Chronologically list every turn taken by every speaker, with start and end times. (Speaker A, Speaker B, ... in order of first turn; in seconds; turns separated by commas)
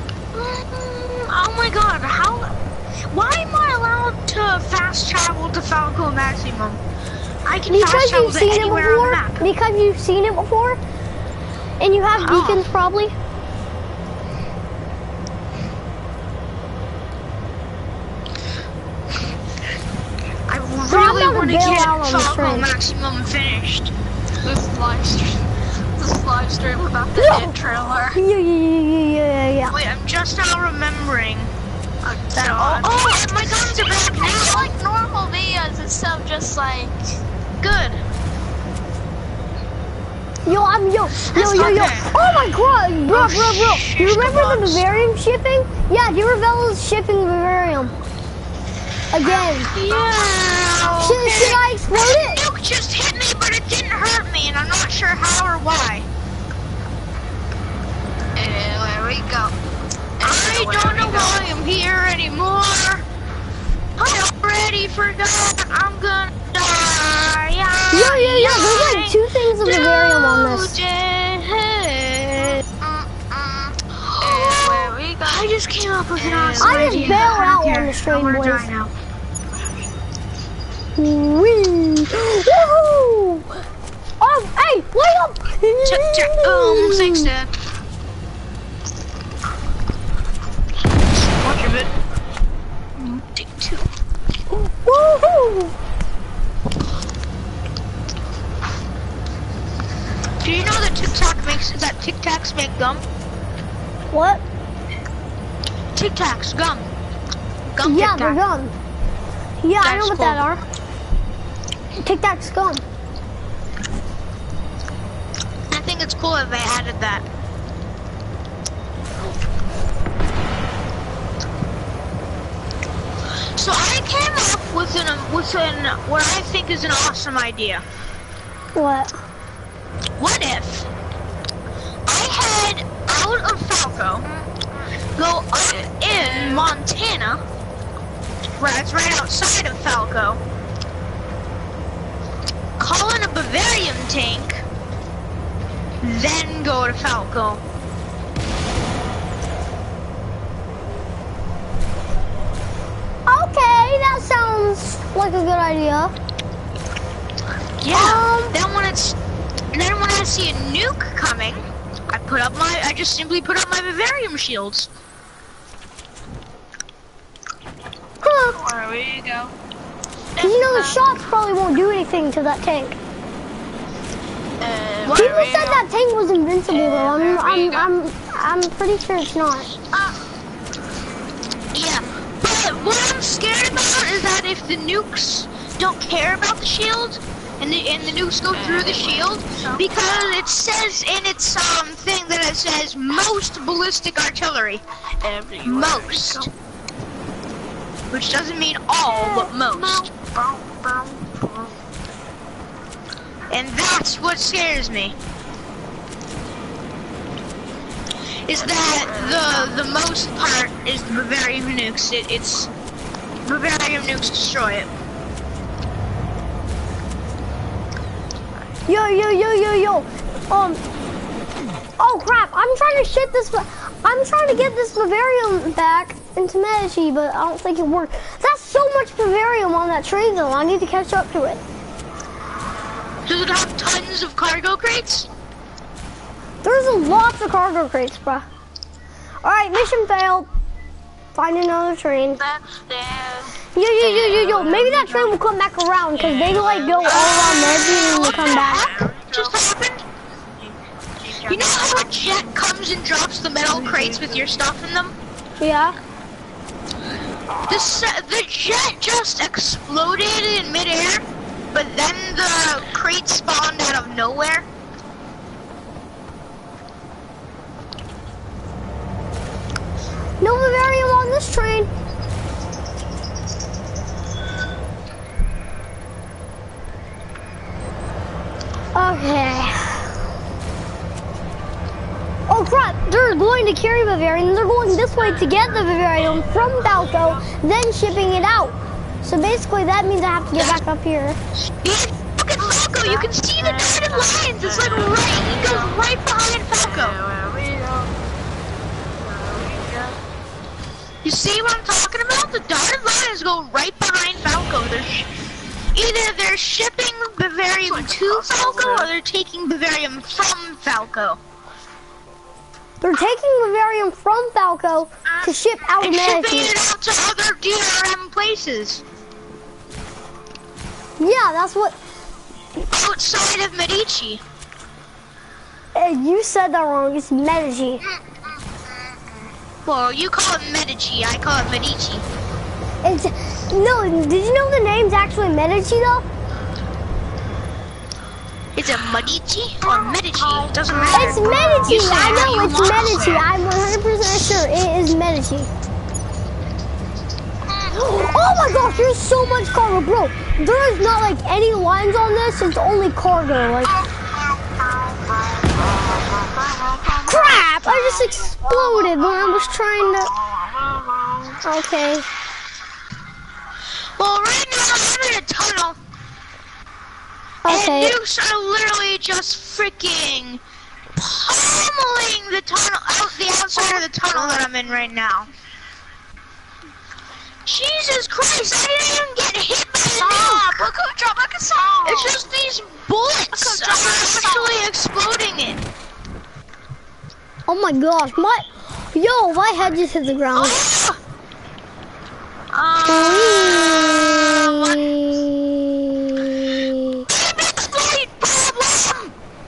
Speaker A: 0.3-2.5, Speaker A: 3.1-6.8, Speaker A: 7.4-9.4, Speaker B: 7.7-10.8, Speaker B: 11.8-13.1, Speaker A: 12.2-12.6, Speaker A: 20.5-23.9, Speaker B: 20.9-22.7, Speaker C: 24.4-28.2, Speaker B: 27.1-27.5, Speaker B: 28.1-29.7, Speaker A: 29.7-31.5, Speaker C: 32.0-37.0, Speaker A: 32.3-34.7, Speaker A: 37.6-38.0, Speaker B: 40.5-47.9, Speaker A: 41.3-42.1, Speaker A: 43.1-45.0, Speaker B: 49.1-49.7, Speaker A: 49.2-56.0, Speaker C: 49.9-50.9, Speaker B: 51.0-52.4, Speaker C: 58.4-59.5, Speaker C: 60.2-61.4, Speaker A: 60.2-63.0, Speaker A: 64.0-78.9, Speaker B: 67.9-70.8, Speaker C: 74.2-75.6, Speaker C: 76.1-77.4, Speaker B: 76.6-78.7, Speaker B: 81.0-83.5, Speaker B: 84.2-87.3, Speaker A: 85.8-87.5, Speaker A: 91.2-91.9, Speaker A: 93.0-93.9, Speaker B: 94.5-95.7, Speaker A: 100.4-103.0, Speaker B: 104.1-104.4, Speaker A: 105.9-106.9, Speaker A: 107.7-108.4, Speaker B: 107.8-108.7, Speaker B: 109.6-110.6, Speaker A: 109.8-110.4, Speaker B: 112.0-112.8, Speaker A: 115.7-117.2, Speaker A: 123.6-127.8, Speaker B: 128.7-129.2, Speaker A: 130.2-130.9, Speaker A: 132.1-134.2, Speaker C: 134.3-134.6, Speaker A: 135.2-137.4, Speaker C: 135.7-136.7, Speaker A: 138.6-140.4, Speaker A: 142.8-144.6, Speaker A: 146.0-147.6, Speaker B: 153.3-156.1, Speaker A: 157.8-159.2, Speaker B: 157.9-158.5, Speaker A: 159.7-164.9, Speaker B: 168.2-168.6, Speaker C: 168.5-169.5, Speaker C: 170.4-171.0, Speaker B: 170.4-172.9, Speaker C: 174.6-175.9, Speaker A: 175.0-175.3, Speaker B: 175.1-179.7, Speaker C: 176.7-177.9, Speaker C: 179.9-180.1, Speaker A: 181.7-194.8, Speaker C: 188.5-189.9, Speaker C: 195.2-196.5, Speaker A: 195.6-196.5, Speaker A: 198.1-200.1, Speaker C: 199.1-201.8, Speaker A: 203.5-205.1, Speaker A: 208.5-212.7, Speaker C: 208.5-209.8, Speaker A: 213.4-214.9, Speaker B: 218.9-220.8, Speaker B: 222.0-231.6, Speaker A: 233.2-235.3, Speaker B: 236.6-238.4, Speaker B: 239.4-240.5, Speaker B: 241.3-242.4, Speaker C: 242.4-245.4, Speaker B: 243.7-249.0, Speaker C: 246.2-249.6, Speaker A: 247.0-250.0, Speaker C: 251.2-252.1, Speaker A: 251.5-255.1, Speaker C: 253.7-254.5, Speaker B: 255.6-256.0, Speaker A: 257.7-264.6, Speaker B: 270.4-271.9, Speaker B: 278.9-280.1, Speaker B: 282.5-291.4, Speaker C: 286.9-287.4, Speaker A: 290.6-290.8, Speaker A: 291.6-297.2, Speaker C: 293.0-296.0, Speaker C: 296.7-298.1, Speaker C: 299.2-300.2, Speaker A: 301.2-305.3, Speaker A: 305.9-311.4, Speaker C: 307.8-309.1, Speaker B: 313.0-316.7, Speaker A: 315.3-319.0, Speaker B: 321.2-321.9, Speaker A: 322.8-324.4, Speaker B: 325.9-328.0, Speaker A: 328.0-329.1, Speaker A: 329.8-332.2, Speaker B: 333.0-336.3, Speaker A: 338.8-343.5, Speaker C: 339.8-342.4, Speaker B: 341.1-345.7, Speaker A: 347.7-348.2, Speaker B: 347.9-353.9, Speaker C: 353.9-361.6, Speaker B: 357.3-360.3, Speaker B: 361.6-362.2, Speaker A: 364.2-366.0, Speaker B: 367.6-368.2, Speaker A: 367.6-370.6, Speaker A: 371.1-375.5, Speaker C: 373.8-375.1, Speaker A: 377.6-380.7, Speaker C: 380.1-382.4, Speaker A: 382.0-385.8, Speaker C: 383.5-384.8, Speaker B: 387.7-390.8, Speaker A: 390.5-391.2, Speaker A: 392.7-395.1, Speaker B: 393.1-397.2, Speaker A: 397.3-399.3